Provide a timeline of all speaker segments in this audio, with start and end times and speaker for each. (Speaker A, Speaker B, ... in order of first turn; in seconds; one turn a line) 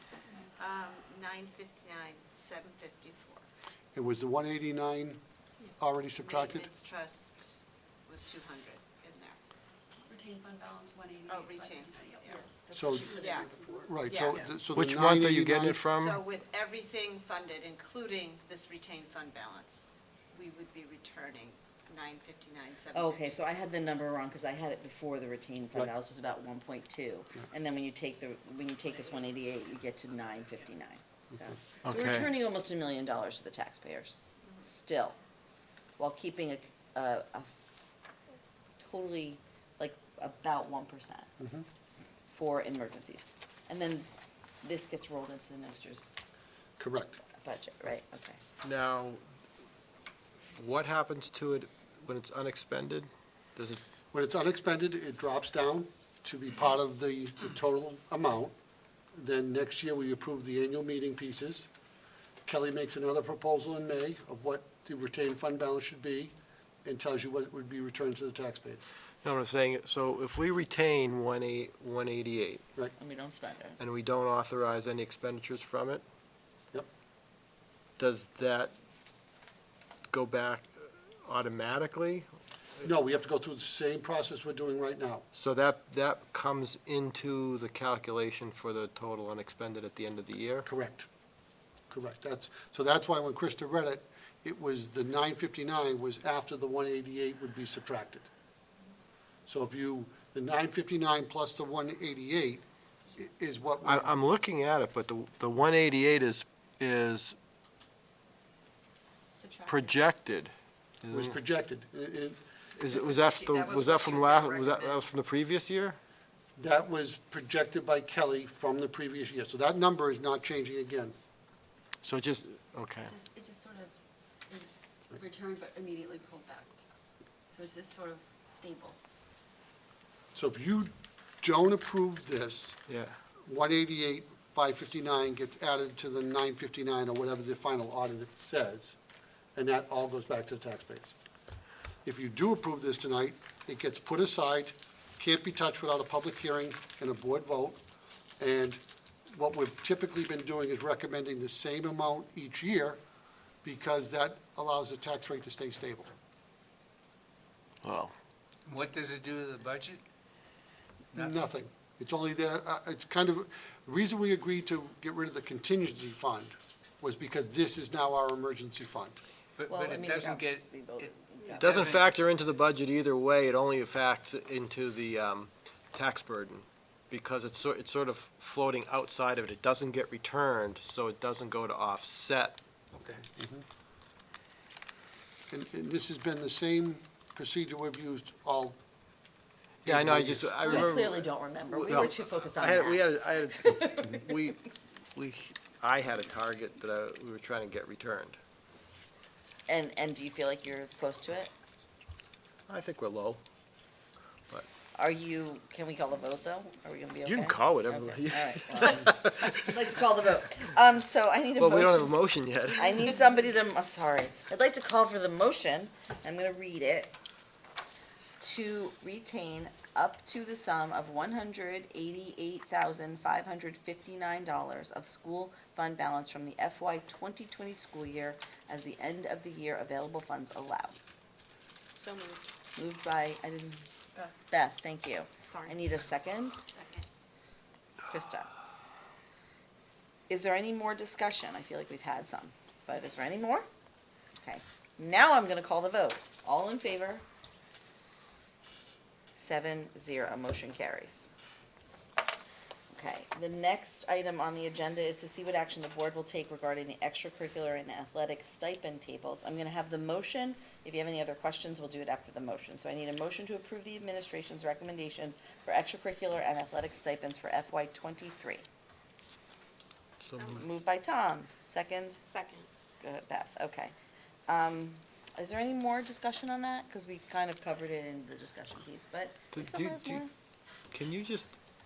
Speaker A: 0.6-3.4
Speaker B: 3.9-5.2
Speaker B: 5.8-6.7
Speaker A: 6.2-7.5
Speaker A: 8.1-9.4
Speaker C: 10.1-14.1
Speaker A: 11.3-12.4
Speaker B: 12.7-15.8
Speaker A: 13.1-13.5
Speaker A: 14.1-14.4
Speaker D: 14.7-16.2
Speaker A: 15.9-23.3
Speaker E: 22.9-35.2
Speaker D: 31.8-32.3
Speaker E: 36.0-37.5
Speaker E: 38.8-41.3
Speaker B: 41.4-41.6
Speaker E: 42.3-44.1
Speaker E: 44.6-46.0
Speaker B: 46.8-47.2
Speaker E: 47.4-48.4
Speaker D: 48.6-49.2
Speaker D: 50.5-53.8
Speaker B: 54.1-58.5
Speaker B: 59.1-61.7
Speaker B: 62.5-66.3
Speaker B: 66.8-68.8
Speaker D: 69.2-72.6
Speaker E: 73.0-73.8
Speaker D: 73.8-76.0
Speaker D: 78.0-78.7
Speaker D: 80.1-82.3
Speaker B: 82.8-85.2
Speaker D: 85.3-90.7
Speaker B: 90.6-91.1
Speaker B: 91.9-98.3
Speaker B: 99.5-104.1
Speaker D: 103.8-107.3
Speaker C: 109.3-110.0
Speaker D: 109.7-111.3
Speaker B: 111.1-112.4
Speaker D: 112.8-116.0
Speaker C: 112.9-115.0
Speaker B: 116.6-121.1
Speaker D: 122.0-123.1
Speaker C: 123.0-123.9
Speaker C: 124.5-126.7
Speaker C: 127.5-129.0
Speaker B: 130.3-132.8
Speaker D: 132.9-133.2
Speaker B: 133.4-139.0
Speaker B: 139.5-141.1
Speaker B: 142.0-147.8
Speaker B: 148.4-153.0
Speaker B: 153.6-156.1
Speaker D: 157.8-158.1
Speaker F: 158.7-160.0
Speaker B: 161.1-169.2
Speaker F: 169.6-172.0
Speaker E: 169.7-172.0
Speaker D: 171.6-182.6
Speaker F: 182.9-183.3
Speaker B: 183.4-183.6
Speaker B: 185.5-188.8
Speaker B: 189.8-190.9
Speaker D: 189.8-198.4
Speaker E: 190.6-194.5
Speaker E: 199.7-201.5
Speaker D: 202.7-203.4
Speaker E: 204.9-212.1
Speaker D: 207.2-209.6
Speaker D: 211.6-213.1
Speaker E: 212.7-217.1
Speaker E: 218.4-231.0
Speaker A: 232.0-232.4
Speaker E: 232.8-233.8
Speaker E: 234.5-236.6
Speaker A: 236.6-237.1
Speaker E: 238.1-238.5
Speaker E: 240.3-243.7
Speaker E: 244.4-247.2
Speaker E: 249.3-251.3
Speaker E: 252.9-268.6
Speaker D: 270.2-270.6
Speaker E: 270.6-272.2
Speaker A: 272.3-272.6
Speaker E: 273.0-273.9
Speaker E: 274.5-280.3
Speaker D: 279.5-280.2
Speaker D: 280.9-281.5